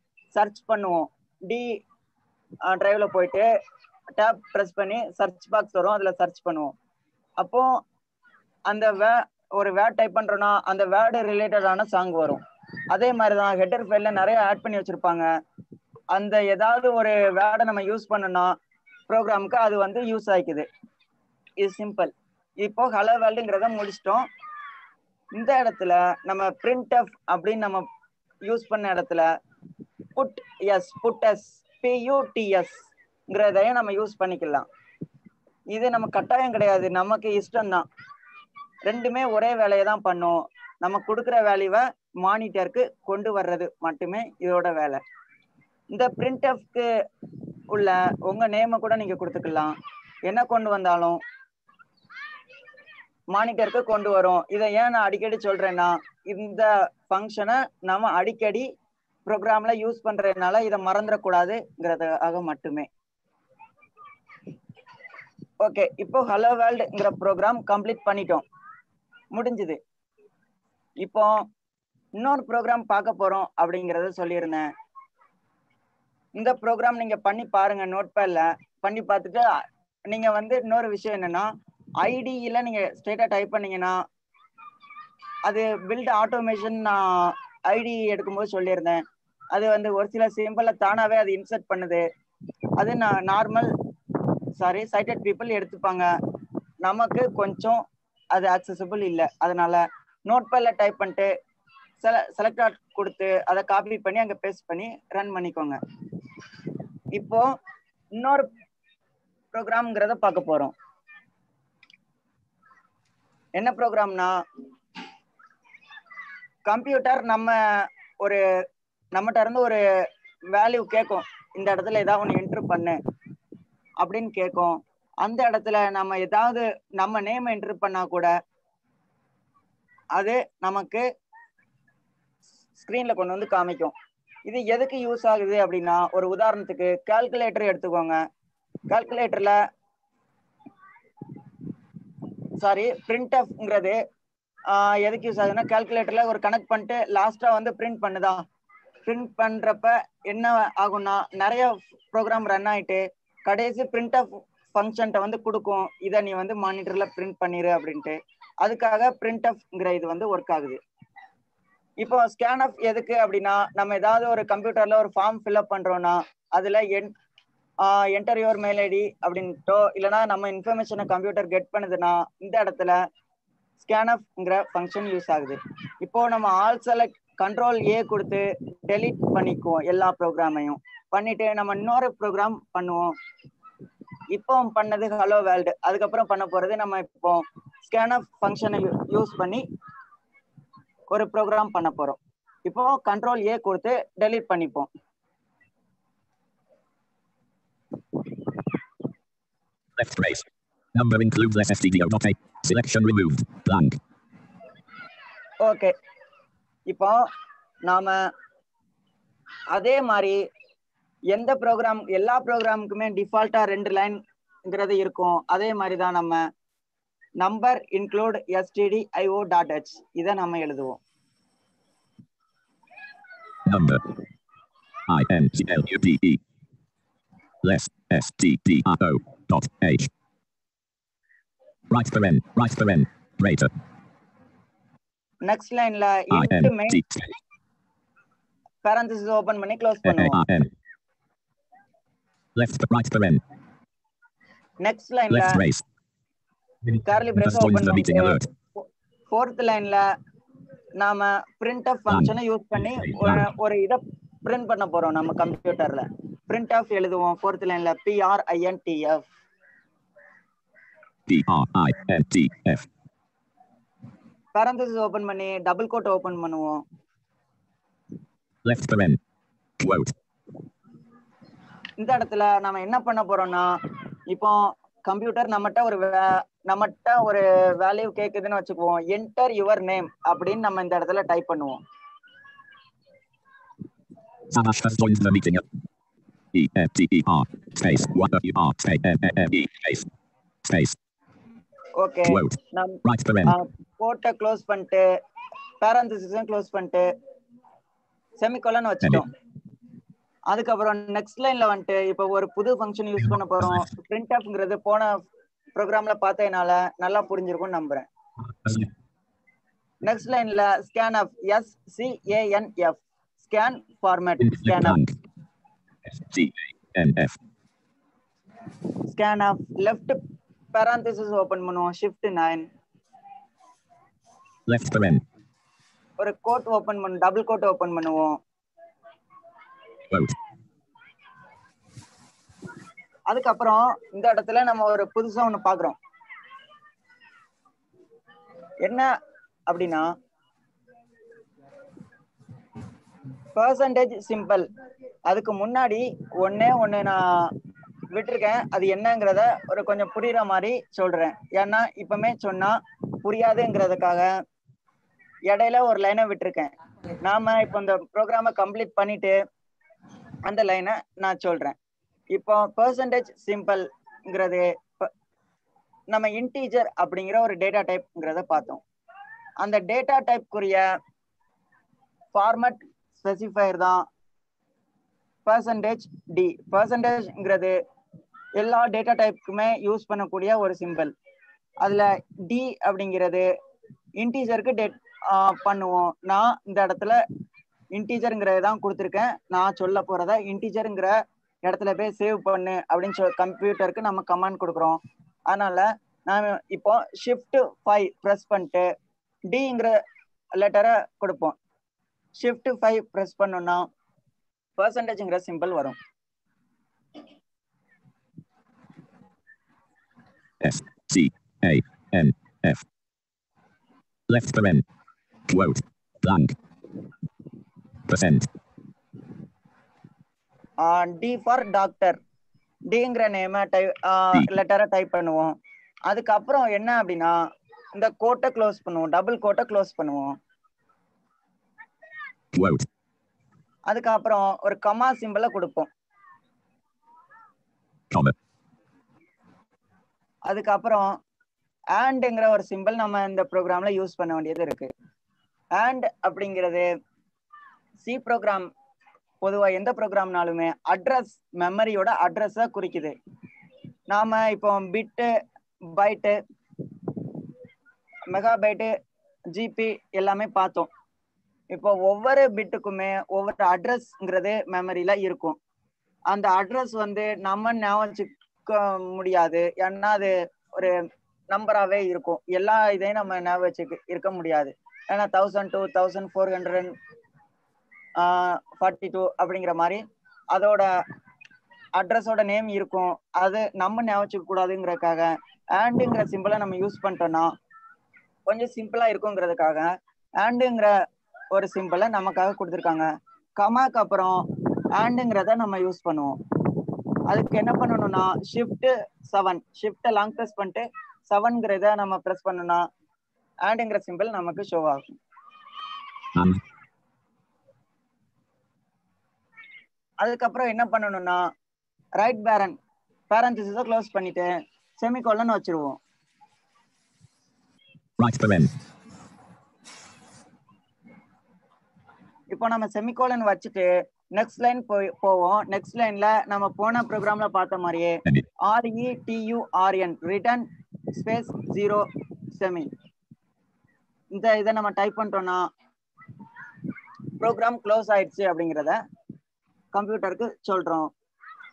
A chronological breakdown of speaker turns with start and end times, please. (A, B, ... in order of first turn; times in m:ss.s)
0:00.3-0:01.7 A
0:02.7-0:03.5 A
0:04.2-0:06.7 A
0:07.4-0:07.7 A
0:08.7-0:12.4 A
0:12.9-0:15.2 A
0:16.1-0:18.5 A
0:19.1-0:20.6 A
0:21.6-0:24.2 A
0:25.3-0:27.8 A
0:28.4-0:29.2 A
0:30.2-0:34.6 A
0:35.7-0:37.8 A
0:38.8-0:45.0 A
0:45.9-0:46.8 A
0:47.7-0:49.7 A
0:50.2-0:51.2 A
0:53.3-0:58.7 A
0:59.2-1:02.9 A
1:05.6-1:08.4 A
1:09.3-1:09.8 A
1:11.0-1:11.4 A
1:12.2-1:14.7 A
1:16.4-1:19.4 A
1:20.1-1:21.5 A
1:22.0-1:23.9 A
1:25.4-1:29.0 A
1:29.5-1:32.0 A
1:32.8-1:33.7 A
1:34.6-1:36.0 A
1:36.8-1:37.8 A
1:38.3-1:41.3 A
1:42.0-1:45.8 A
1:47.1-1:47.5 A
1:48.2-1:48.5 A
1:49.5-1:50.7 A
1:53.6-1:54.3 A
1:56.6-1:57.6 A
1:59.1-1:59.8 A
2:00.5-2:03.0 A
2:04.0-2:08.3 A
2:10.1-2:11.0 A
2:12.8-2:13.9 A
2:14.4-2:18.2 A
2:18.9-2:19.6 A
2:22.6-2:24.0 A
2:24.7-2:28.4 A
2:29.0-2:40.8 A
2:42.0-2:47.1 A
2:47.8-2:53.0 A
2:53.8-3:03.0 A
3:04.3-3:09.6 A
3:11.1-3:14.9 A
3:20.0-3:24.0 B
3:25.6-3:25.9 A
3:26.9-3:27.2 A
3:27.8-3:28.2 A
3:29.7-3:30.4 A
3:31.3-3:36.4 A
3:37.4-3:41.0 A
3:43.6-3:44.1 B
3:45.1-3:46.4 B
3:47.6-3:50.1 B
3:51.9-3:53.7 B
3:55.4-3:57.0 A
3:56.3-3:57.3 B
3:58.8-4:00.4 A
4:00.0-4:00.7 B
4:02.5-4:03.4 B
4:04.8-4:05.6 A
4:05.3-4:05.8 B
4:06.8-4:08.4 B
4:07.0-4:10.0 A
4:11.0-4:19.2 A
4:12.1-4:13.4 B
4:21.3-4:22.8 B
4:24.5-4:26.8 A
4:28.6-4:29.2 B
4:29.8-4:30.1 B
4:32.0-4:33.6 A
4:34.3-4:41.8 A
4:44.5-4:45.6 B
4:46.5-4:50.1 B
4:50.7-4:51.0 B
4:52.0-4:55.0 A
4:52.3-4:53.5 B
4:55.8-4:57.0 A
4:58.4-4:59.3 A
5:00.5-5:05.2 A
5:03.2-5:03.9 B
5:05.8-5:08.0 A
5:08.5-5:08.9 B
5:10.0-5:15.0 A
5:14.4-5:15.1 B
5:16.1-5:17.4 B
5:19.1-5:20.2 A
5:20.7-5:22.7 A
5:24.7-5:25.2 B
5:26.2-5:28.3 A
5:30.1-5:30.4 B
5:33.3-5:36.0 A
5:38.8-5:39.1 A
5:39.7-5:40.1 A
5:43.5-5:44.7 A
5:45.3-5:47.2 A
5:48.1-5:54.3 A
5:55.5-5:59.3 A
6:00.4-6:01.8 A
6:02.3-6:05.1 A
6:06.1-6:08.8 A
6:09.6-6:10.8 A
6:12.3-6:14.0 A
6:15.4-6:17.7 A
6:18.6-6:21.1 A
6:21.8-6:23.5 A
6:24.2-6:27.2 A
6:27.9-6:31.1 A
6:31.6-6:38.8 A
6:39.5-6:39.9 A
6:40.6-6:41.5 A
6:42.4-6:43.8 A
6:44.8-6:46.0 A
6:50.6-6:52.8 B
6:54.3-6:54.8 B
6:55.5-6:56.5 B
6:58.0-6:58.5 B
7:00.8-7:02.2 A
7:02.9-7:05.5 A
7:06.1-7:07.3 A
7:07.9-7:10.3 A
7:12.5-7:12.9 B
7:13.9-7:15.9 A
7:20.5-7:21.1 A
7:21.9-7:24.9 A
7:25.8-7:26.8 A
7:28.0-7:28.7 A
7:29.4-7:33.1 A
7:34.1-7:35.3 A
7:35.9-7:36.4 A
7:38.3-7:38.9 A
7:39.5-7:40.9 A
7:41.7-7:45.6 A
7:46.3-7:51.0 A
7:51.5-7:56.9 A
7:58.2-8:00.9 A
8:02.0-8:07.5 A
8:08.5-8:09.9 A
8:10.4-8:10.9 A
8:11.5-8:13.0 A
8:13.6-8:14.4 A
8:15.0-8:16.3 A
8:17.3-8:22.8 A
8:23.6-8:25.2 A
8:26.3-8:26.6 B
8:30.2-8:31.4 A
8:32.2-8:32.8 A
8:33.3-8:34.5 A
8:35.0-8:36.0 A
8:38.2-8:38.7 B
8:42.5-8:52.0 A
8:52.5-8:52.9 A
8:54.3-8:55.6 A
8:57.4-8:59.0 A
8:59.9-9:01.1 A